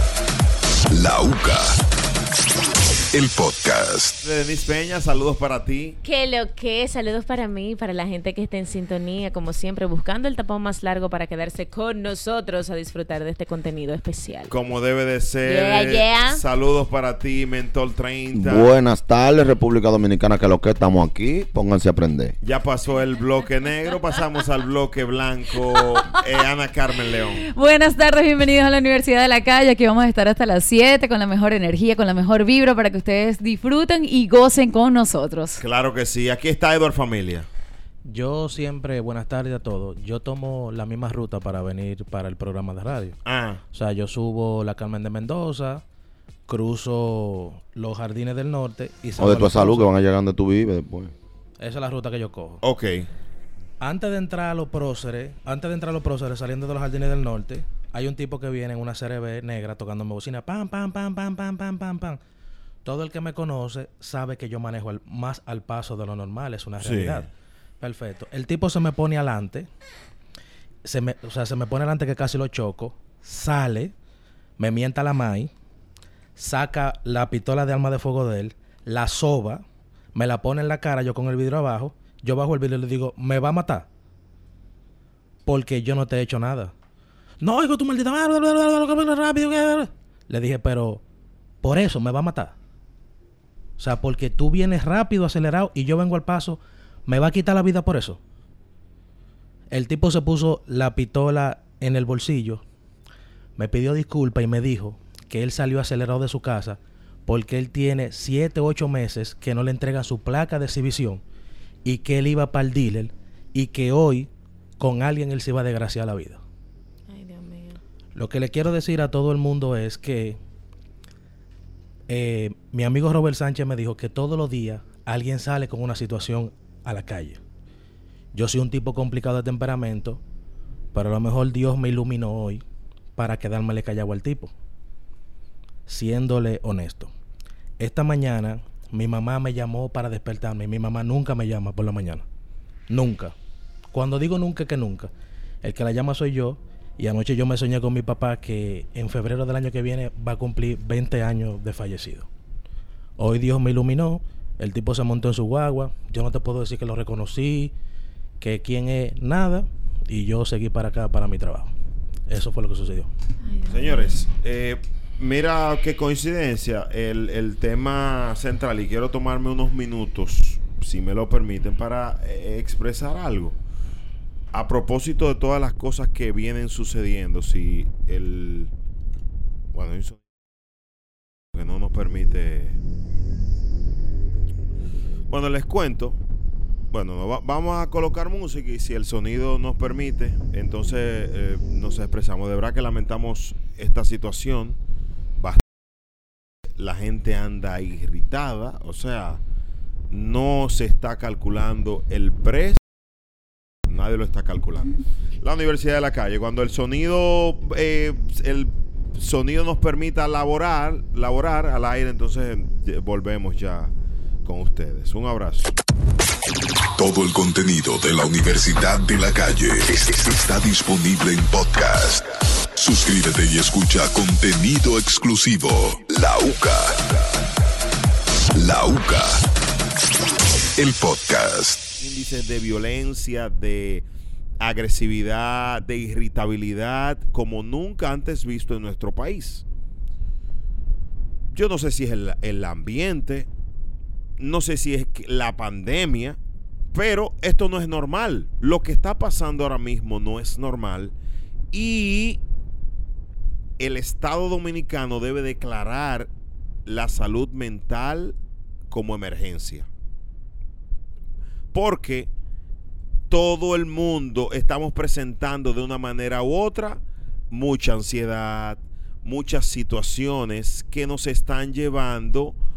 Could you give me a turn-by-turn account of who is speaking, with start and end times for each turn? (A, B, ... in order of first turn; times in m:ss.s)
0:00.9-0:01.8 A
0:03.1-0:04.2 A
0:04.2-0:06.0 B
0:06.0-0:14.5 C
0:14.5-0:18.7 B
0:15.4-0:16.4 C
0:18.3-0:22.4 D
0:22.4-0:27.5 B
0:27.5-0:35.6 E
0:35.6-0:37.5 B
0:38.0-0:43.2 F
0:43.2-0:43.6 B
0:43.7-0:45.8 F
0:46.5-0:49.9 F
0:49.2-0:51.1 D
0:51.6-0:52.6 F
0:52.6-0:53.1 B
0:53.8-1:02.2 F
1:02.8-1:07.3 F
1:06.8-1:07.3 B
1:07.8-1:09.7 F
1:10.8-1:13.9 F
1:14.6-1:15.5 F
1:16.4-1:19.6 F
1:20.1-1:23.9 F
1:25.4-1:26.7 F
1:27.4-1:31.0 F
1:31.6-1:32.5 F
1:33.8-1:38.2 F
1:39.7-1:42.6 F
1:43.6-1:51.2 F
1:51.8-1:56.4 F
1:57.1-1:57.8 C
1:58.1-2:00.4 F
2:02.1-2:07.4 F
2:08.3-2:10.2 F
2:10.9-2:12.6 F
2:13.2-2:14.5 F
2:15.9-2:17.1 F
2:17.8-2:22.2 F
2:22.9-2:23.3 F
2:23.9-2:25.1 F
2:25.6-2:32.3 F
2:33.2-2:37.7 F
2:38.4-2:41.7 F
2:42.3-2:43.1 F
2:43.5-2:44.2 C
2:43.6-2:53.6 B
2:54.5-2:58.7 B
2:59.7-3:00.2 B
3:01.5-3:02.8 B
3:05.3-3:06.2 B
3:06.9-3:14.8 B
3:16.8-3:19.4 B
3:20.1-3:22.8 B
3:23.9-3:33.9 B
3:34.4-3:35.8 B
3:37.0-3:47.2 A
3:48.5-3:49.4 A
3:50.8-3:51.8 A
3:52.0-3:54.0 B
3:54.6-3:59.6 B
4:01.5-4:03.5 B
4:04.4-4:06.4 B
4:06.9-4:11.1 B
4:11.7-4:12.4 B
4:13.8-4:16.3 B
4:16.8-4:18.4 B
4:18.9-4:19.9 B
4:21.7-4:22.3 B
4:23.3-4:32.6 B